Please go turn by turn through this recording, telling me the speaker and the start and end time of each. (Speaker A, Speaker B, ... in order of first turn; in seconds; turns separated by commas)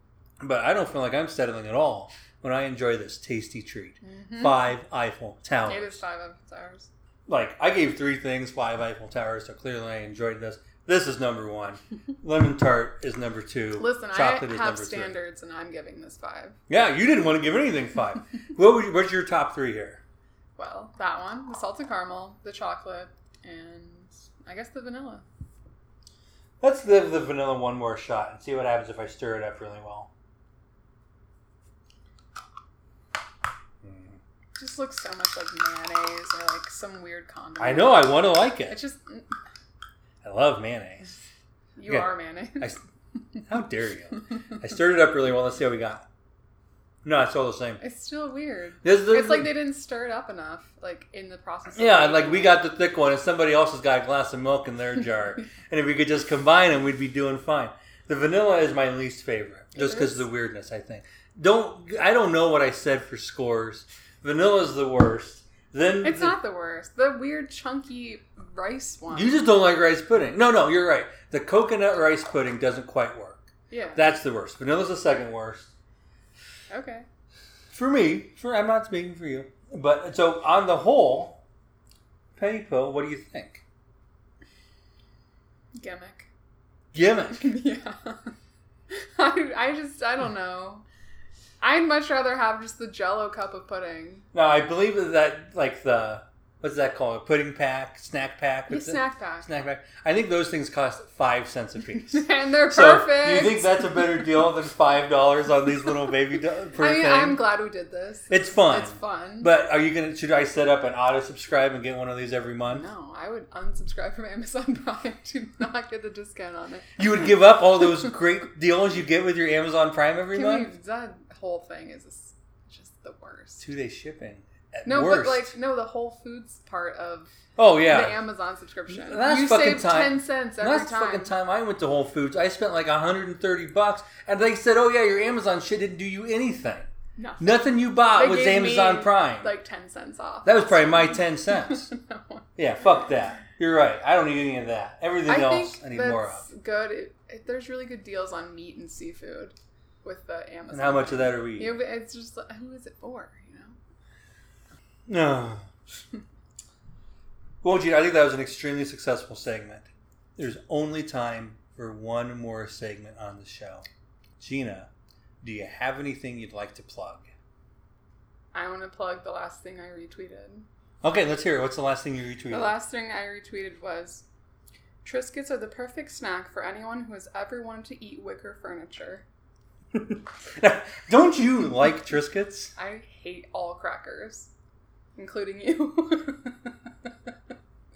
Speaker A: 0.4-6.0, Speaker B: 4.0-4.7, Speaker B: 5.6-6.9, Speaker A: 7.3-15.2, Speaker B: 13.8-16.6, Speaker A: 16.7-20.0, Speaker B: 20.6-25.2, Speaker A: 26.6-30.1, Speaker A: 33.8-34.2, Speaker B: 34.6-39.3, Speaker A: 37.6-38.8, Speaker A: 40.2-41.1, Speaker B: 41.8-42.7, Speaker A: 41.9-42.8, Speaker A: 43.4-46.0, Speaker A: 47.0-47.8, Speaker B: 47.8-52.6, Speaker A: 48.8-49.6, Speaker A: 51.7-66.4, Speaker B: 59.7-60.2, Speaker B: 66.0-69.4, Speaker A: 69.1-75.7, Speaker B: 73.7-74.0, Speaker B: 76.7-77.0, Speaker A: 77.7-81.4, Speaker A: 82.4-83.6, Speaker B: 85.8-86.3, Speaker A: 86.9-87.5, Speaker B: 87.3-88.3, Speaker B: 88.9-90.8, Speaker B: 91.6-94.2, Speaker A: 94.3-107.5, Speaker B: 98.7-99.5, Speaker B: 102.0-104.1, Speaker B: 106.8-109.5, Speaker A: 108.3-112.9, Speaker B: 112.7-117.0, Speaker A: 117.0-120.7, Speaker B: 120.3-123.6, Speaker A: 123.6-125.5, Speaker B: 124.8-127.3, Speaker A: 127.6-128.2, Speaker B: 127.9-131.3, Speaker A: 128.9-136.9, Speaker B: 137.2-137.5, Speaker A: 137.4-139.5, Speaker B: 138.1-142.5, Speaker A: 140.4-141.9, Speaker A: 142.6-146.5, Speaker B: 145.2-153.8, Speaker A: 150.7-151.8, Speaker A: 155.1-155.7, Speaker A: 157.6-163.8, Speaker A: 164.4-164.9, Speaker A: 165.4-167.3, Speaker B: 168.5-170.7, Speaker A: 171.0-172.8, Speaker B: 172.5-174.2, Speaker B: 175.0-179.2, Speaker A: 179.9-182.7, Speaker B: 182.8-184.5, Speaker B: 185.2-187.1